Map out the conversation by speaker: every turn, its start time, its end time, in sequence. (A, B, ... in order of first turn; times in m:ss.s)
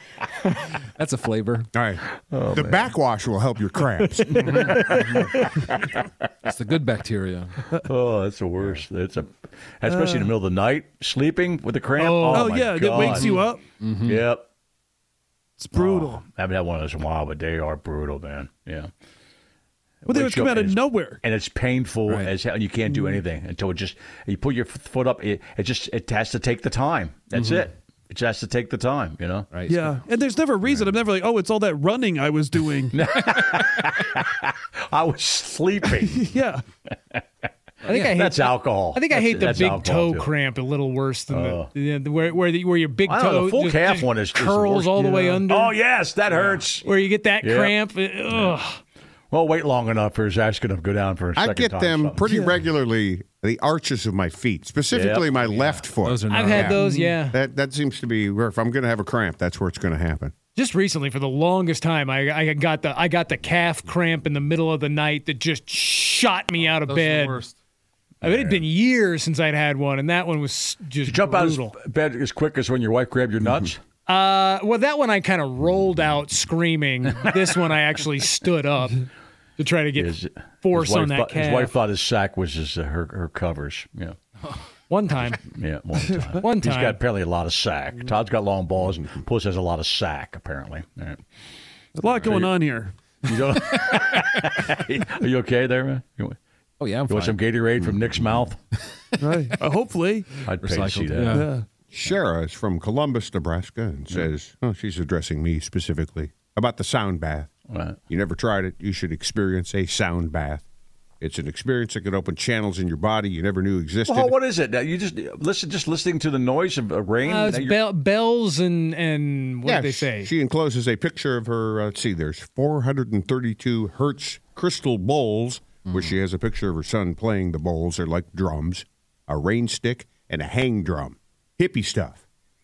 0:01.0-0:01.7 A
0:01.7-0:02.0 B
0:02.3-0:02.9 C
0:02.5-0:04.6 B
0:04.4-0:05.1 A
0:04.7-0:05.4 D
0:06.4-0:07.5 A
0:07.8-0:13.4 C
0:09.8-0:10.3 E
0:12.0-0:12.5 D
0:12.3-0:13.6 E
0:13.0-0:14.2 A
0:14.0-0:14.4 C
0:15.6-0:16.2 E
0:15.7-0:18.9 C
0:20.0-0:29.5 C
0:20.0-0:21.2 E
0:22.1-0:22.3 A
0:22.8-0:23.2 E
0:27.3-0:27.6 A
0:29.5-0:30.0 A
0:29.7-0:33.0 E
0:32.9-0:36.2 C
0:36.0-0:36.6 E
0:37.8-0:45.8 D
0:37.9-0:38.2 A
0:37.9-0:40.3 C
0:41.3-0:41.7 C
0:43.1-0:46.9 C
0:45.0-0:45.4 E
0:46.3-0:48.8 D
0:47.4-0:47.8 C
0:48.3-0:48.5 C
0:49.3-0:52.2 C
0:51.4-1:00.3 B
0:52.2-0:52.6 E
0:54.9-0:55.9 C
0:56.0-0:56.9 A
0:56.3-0:57.4 D
1:00.5-1:07.4 D
1:06.8-1:07.6 A
1:08.2-1:08.6 C
1:08.2-1:11.7 D
1:11.0-1:13.8 C
1:14.0-1:19.0 D
1:19.6-1:21.7 D
1:20.0-1:24.2 C
1:24.9-1:25.4 D
1:25.5-1:31.2 C
1:26.4-1:27.0 D
1:31.9-1:33.0 E
1:32.0-1:32.5 C
1:33.2-1:36.4 C
1:36.8-1:37.4 A
1:37.1-1:38.6 C
1:39.2-1:40.3 E
1:40.4-1:41.5 C
1:40.5-1:41.5 A
1:41.3-1:41.6 E
1:41.9-1:47.5 B
1:47.7-1:48.0 C
1:48.1-1:50.6 B
1:51.2-1:54.3 B
1:54.1-1:57.8 C
1:57.2-2:00.3 D
1:59.6-2:12.2 B